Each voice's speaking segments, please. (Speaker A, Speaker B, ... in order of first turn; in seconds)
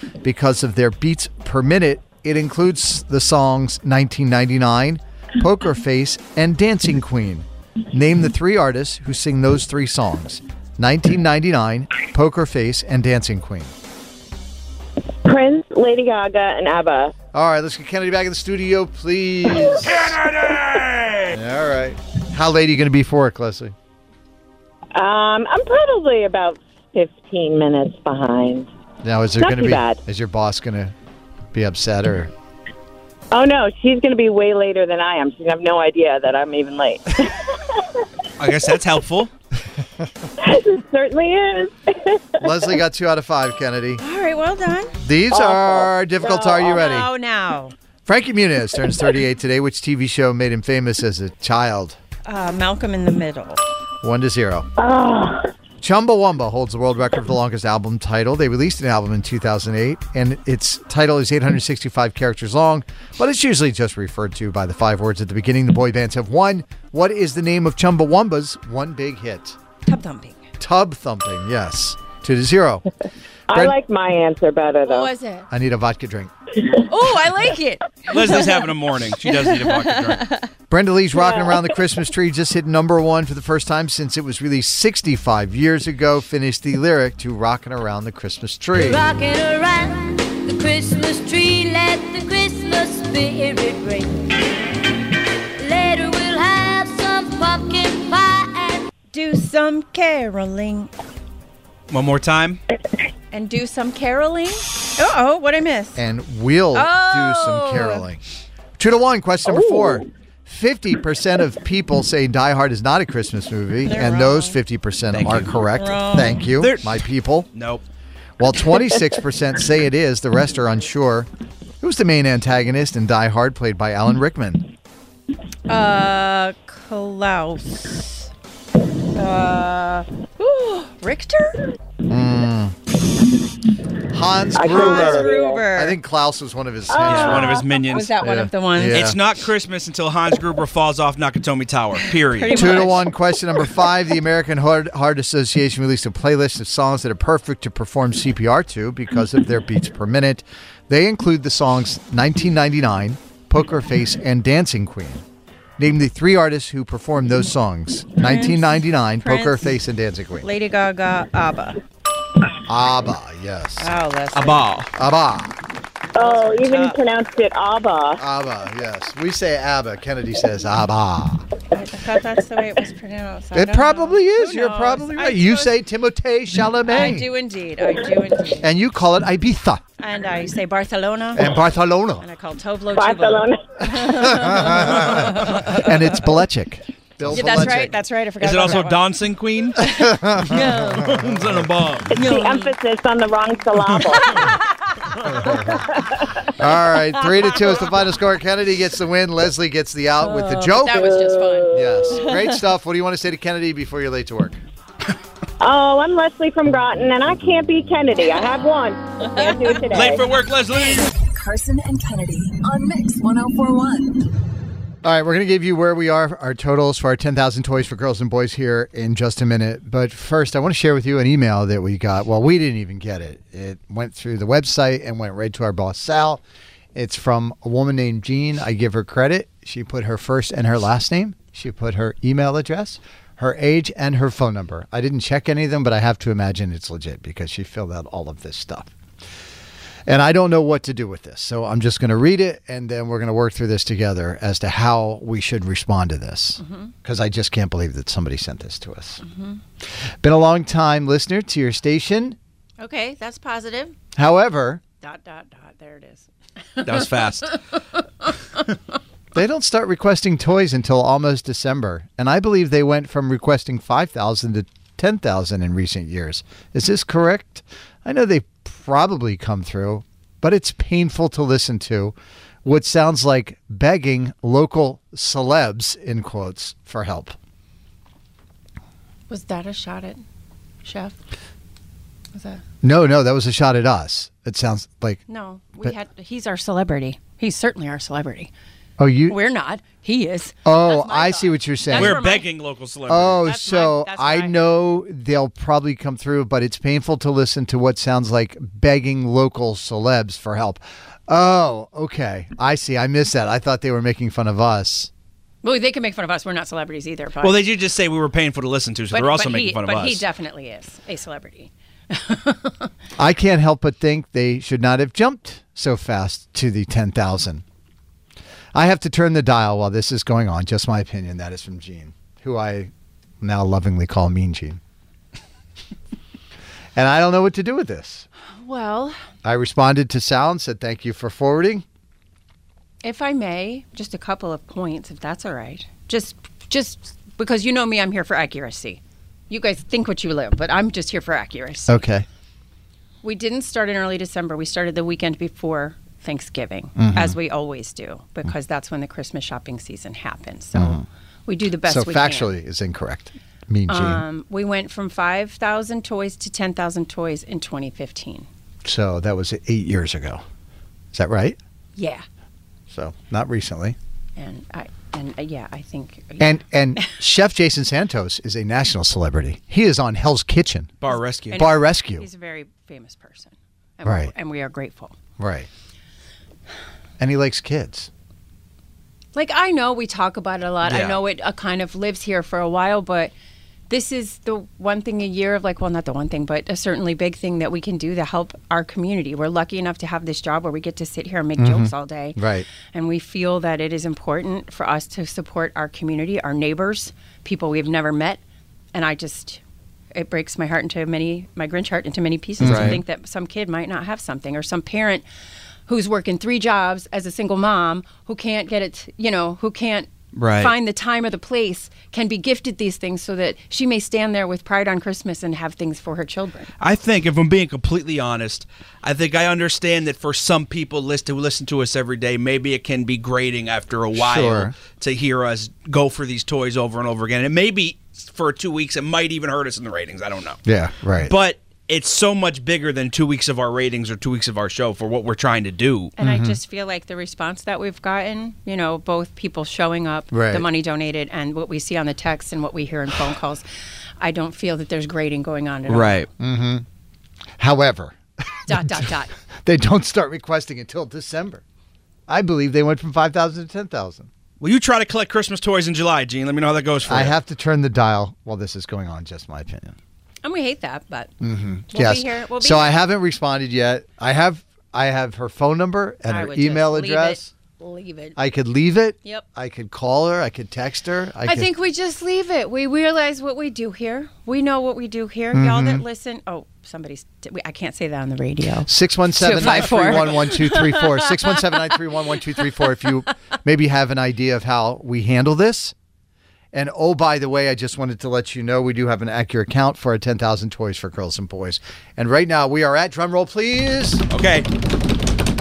Speaker A: 0.2-13.7, 17.3-20.2, 21.3-23.7, 29.0-30.9, 31.5-32.3, 42.4-44.0, 45.0-47.1, 48.0-52.0, 54.0-54.7, 55.8-69.6, 70.6-72.8, 73.5-73.8, 75.5-76.3, 80.7-89.0, 106.0-108.2, 108.8-117.5, 118.4-121.3, 121.8-124.7, 132.1-132.7, 134.1-137.5, 138.2-139.2, 142.5-155.2, 155.8-160.5, 162.7-163.9, 164.9-165.6, 168.2-171.4, 173.5-177.3, 178.6-179.8, 181.3-182.2, 183.9-187.9, 189.8-191.5, 195.3-195.8, 196.6-201.2, 201.7-204.6, 215.0-226.4, 226.9-238.9, 240.1-249.2, 250.2-252.4, 254.2-254.8, 259.3-277.4, 282.8-285.2, 289.0-289.4, 290.6-292.2, 293.1-305.1, 313.2-317.6, 318.7-324.8, 326.9-328.2, 329.4-331.8, 341.9-342.2, 346.9-347.4, 350.7-351.0, 351.8-354.2, 358.8-360.4, 361.1-361.6, 362.9-364.0, 366.4-370.9, 371.5-372.3, 374.0-374.3, 375.4-375.7, 377.2-378.1, 391.6-392.7, 402.6-403.0, 424.1-424.7, 430.6-431.3, 436.2-436.6, 440.3-440.6, 446.4-446.8, 447.6-449.1, 449.6-451.6, 452.3-454.3, 457.1-459.9, 461.4-467.5, 468.4-471.7, 475.5-476.0, 478.9-485.9, 486.7-494.2
Speaker B: 15.2-17.1, 24.9-28.7, 29.4-30.0, 33.3-37.8, 40.4-42.7, 45.3-46.8, 54.8-55.5, 73.5-75.1, 81.1-81.6, 109.4-110.0, 134.5-135.7, 136.9-137.5, 166.1-168.2, 182.9-183.6, 192.1-194.4, 201.0-202.2, 205.6-210.2
Speaker C: 38.4-39.3, 78.1-80.3, 101.9-102.6, 115.1-115.5, 116.6-117.0, 117.5-117.8, 137.0-138.2, 138.9-142.9, 164.3-164.9, 188.4-189.8, 191.0-192.1, 209.9-211.1, 256.8-257.5, 291.9-293.4, 307.4-310.2, 371.0-371.6, 380.8-381.2, 402.6-403.0, 410.4-410.7, 416.8-430.6, 431.2-436.1, 445.9-446.3, 454.6-457.3, 494.3-494.7
Speaker D: 44.0-44.9, 46.5-47.7, 52.2-53.6, 69.9-70.4, 74.8-75.5, 76.9-78.5, 79.3-80.3, 99.1-100.9, 103.3-106.0, 106.7-108.0, 113.8-114.6, 115.8-116.4, 125.7-128.3, 129.1-131.6, 134.7-135.9, 137.1-139.0, 142.3-143.1, 158.2-159.7, 160.4-161.8, 163.8-164.6, 166.2-167.0, 171.7-175.7, 176.9-178.7, 180.0-181.5, 182.2-186.2, 187.3-189.0, 189.8-191.2, 192.1-192.7, 200.2-202.5, 209.3-209.8, 246.6-246.9, 249.2-249.6, 252.8-253.9, 255.0-257.0, 279.3-280.2, 280.8-281.2, 282.3-282.6, 285.3-288.5, 289.3-292.4, 293.4-294.6, 305.6-307.6, 309.1-312.9, 328.6-329.2, 333.0-342.0, 343.2-352.5, 353.9-358.5, 361.9-362.2, 364.4-367.1, 371.1-375.1, 379.3-383.3, 383.9-392.4, 392.9-398.4, 398.9-399.6, 400.1-405.2, 405.9-416.7, 436.2-443.6, 444.2-446.2, 448.7-449.3, 460.4-461.3, 461.9-463.0, 466.3-468.4, 471.4-481.7
Speaker E: 88.8-94.2, 95.6-98.9
Speaker F: 211.1-214.2